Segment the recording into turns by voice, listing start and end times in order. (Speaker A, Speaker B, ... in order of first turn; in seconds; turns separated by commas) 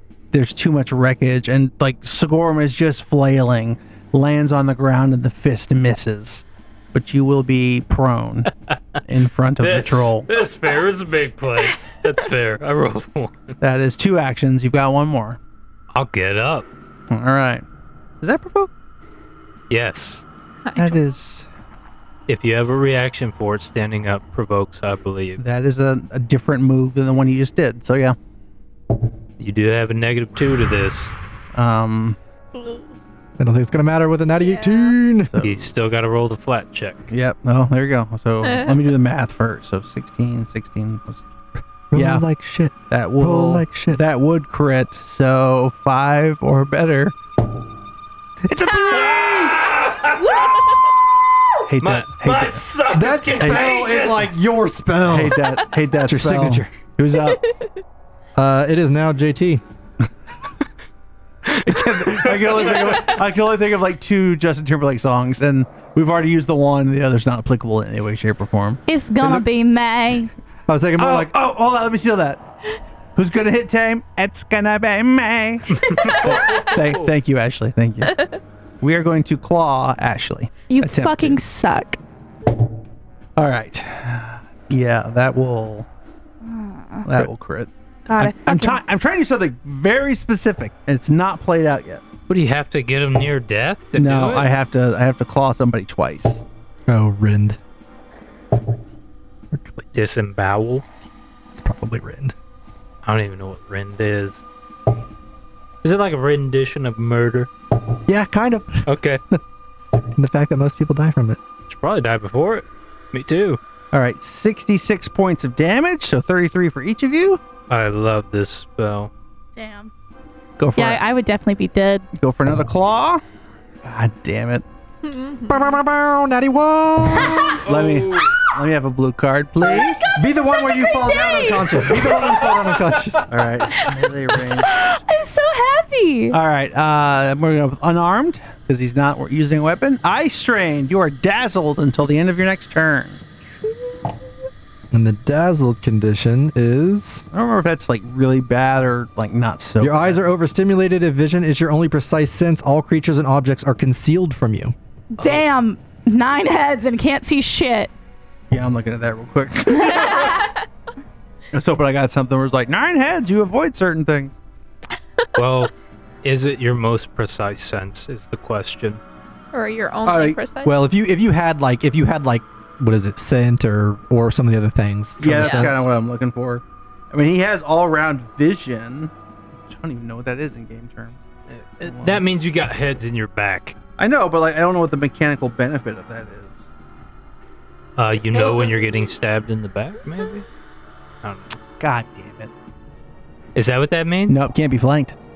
Speaker A: 0.3-8.5, Speaker A: 9.1-10.3, Speaker B: 9.6-13.5, Speaker A: 13.6-15.4, Speaker B: 15.9-16.7, Speaker A: 17.1-17.6, Speaker A: 18.2-18.7, Speaker B: 19.7-20.2, Speaker C: 20.6-21.0, Speaker A: 20.8-21.5, Speaker B: 22.3-25.4, Speaker A: 25.4-28.2, Speaker B: 29.4-31.1, Speaker A: 31.5-32.2, Speaker C: 32.5-32.9, Speaker D: 33.4-35.3, Speaker C: 34.5-34.9, Speaker A: 35.3-35.7, Speaker B: 35.4-37.1, Speaker A: 37.1-41.2, Speaker C: 38.4-38.8, Speaker D: 41.9-44.0, Speaker A: 41.9-42.2, Speaker A: 42.9-47.1, Speaker D: 48.4-49.6, Speaker B: 48.9-50.6, Speaker C: 50.2-50.6, Speaker A: 51.7-52.6, Speaker B: 51.8-54.4, Speaker D: 52.9-55.4, Speaker A: 53.3-53.8, Speaker A: 55.1-57.4, Speaker D: 56.0-56.7, Speaker C: 57.3-57.7, Speaker D: 58.3-59.6, Speaker A: 61.6-68.8, Speaker B: 61.8-63.0, Speaker E: 68.9-70.3, Speaker D: 69.2-69.5, Speaker D: 70.7-71.3, Speaker A: 71.0-72.4, Speaker A: 73.2-78.2, Speaker B: 75.8-77.0, Speaker C: 76.0-76.6, Speaker C: 78.1-78.4, Speaker A: 78.8-81.4, Speaker E: 80.7-82.0, Speaker A: 83.4-85.9, Speaker E: 86.4-87.1, Speaker A: 87.0-92.0, Speaker E: 88.0-88.8, Speaker B: 92.3-94.5, Speaker A: 93.9-96.4, Speaker D: 96.9-97.6, Speaker D: 99.5-99.9, Speaker B: 99.9-100.8, Speaker D: 101.6-102.3, Speaker B: 103.0-104.4, Speaker B: 105.8-107.5, Speaker D: 108.1-109.4, Speaker B: 108.8-109.2, Speaker D: 110.2-111.4, Speaker B: 111.7-113.6, Speaker A: 113.9-117.4, Speaker B: 117.7-119.1, Speaker E: 119.5-119.9, Speaker A: 120.6-121.0, Speaker E: 120.8-122.1, Speaker A: 122.2-123.2, Speaker A: 123.8-124.7, Speaker C: 125.0-125.8, Speaker D: 125.5-127.6, Speaker B: 127.5-128.3, Speaker A: 127.6-130.1, Speaker D: 130.1-133.3, Speaker E: 130.4-131.7, Speaker B: 131.9-133.2, Speaker A: 133.3-135.0, Speaker E: 134.6-136.4, Speaker A: 136.3-143.2, Speaker D: 144.9-147.2, Speaker A: 147.3-150.2, Speaker D: 149.8-154.7, Speaker E: 155.1-157.9, Speaker A: 158.5-160.2, Speaker C: 159.8-160.6, Speaker E: 159.9-160.4, Speaker A: 161.5-164.4, Speaker B: 165.4-165.7, Speaker B: 166.2-169.0, Speaker C: 169.5-170.7, Speaker A: 170.0-170.4, Speaker D: 170.6-175.8, Speaker A: 175.2-179.1, Speaker A: 179.7-181.2, Speaker B: 181.5-183.8, Speaker A: 181.8-182.2, Speaker A: 184.0-186.7, Speaker B: 188.0-190.4, Speaker C: 188.4-189.0, Speaker B: 191.2-191.5, Speaker A: 191.8-192.5, Speaker B: 193.5-194.4, Speaker A: 194.3-195.2